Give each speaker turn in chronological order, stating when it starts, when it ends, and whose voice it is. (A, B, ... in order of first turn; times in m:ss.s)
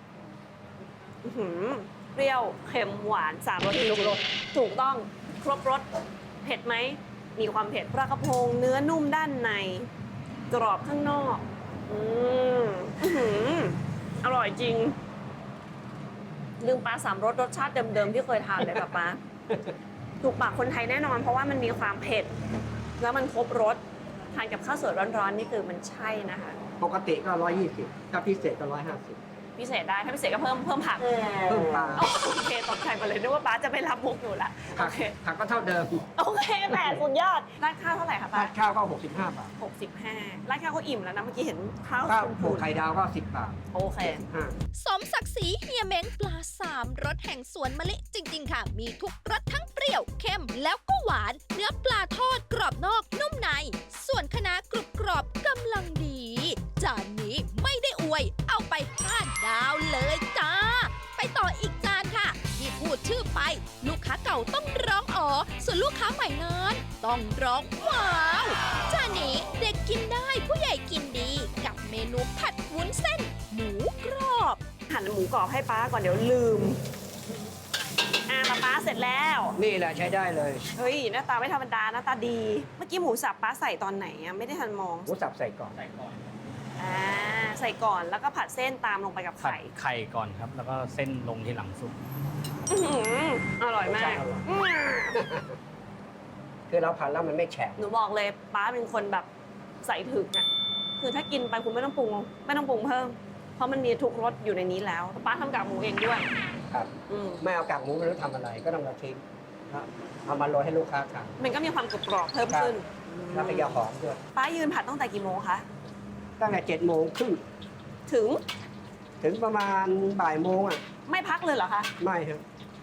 0:01.2-0:05.9 A
0:03.7-0:04.2 B
0:06.4-0:09.9 A
0:10.5-0:15.0 A
0:16.6-0:19.2 A
0:18.6-0:18.9 B
0:20.2-0:22.3 A
0:23.0-0:26.6 A
0:26.8-0:29.2 B
0:29.6-0:31.1 A
0:31.5-0:32.1 B
0:32.0-0:35.2 A
0:34.7-0:36.0 B
0:36.2-0:38.5 A
0:36.7-0:37.0 B
0:38.3-0:39.5 B
0:39.6-0:42.7 A
0:42.1-0:44.6 B
0:43.7-0:44.2 A
0:44.8-1:14.6 C
1:14.9-1:17.4 A
1:18.3-1:19.6 A
1:19.6-1:20.7 B
1:20.7-1:25.1 A
1:25.1-1:25.8 B
1:25.7-1:26.2 D
1:26.8-1:29.7 A
1:29.4-1:32.0 D
1:32.7-1:35.2 A
1:33.8-1:34.5 B
1:35.1-1:35.6 B
1:36.7-1:37.9 B
1:37.8-1:39.3 A
1:39.8-1:40.5 A
1:41.0-1:46.3 A
1:46.7-1:51.3 B
1:47.1-1:47.4 A
1:51.4-1:55.7 A
1:52.5-1:52.8 B
1:53.3-1:54.2 B
1:56.4-1:57.4 B
1:58.1-1:58.4 A
1:59.2-2:00.8 B
2:01.1-2:01.9 A
2:02.0-2:02.4 B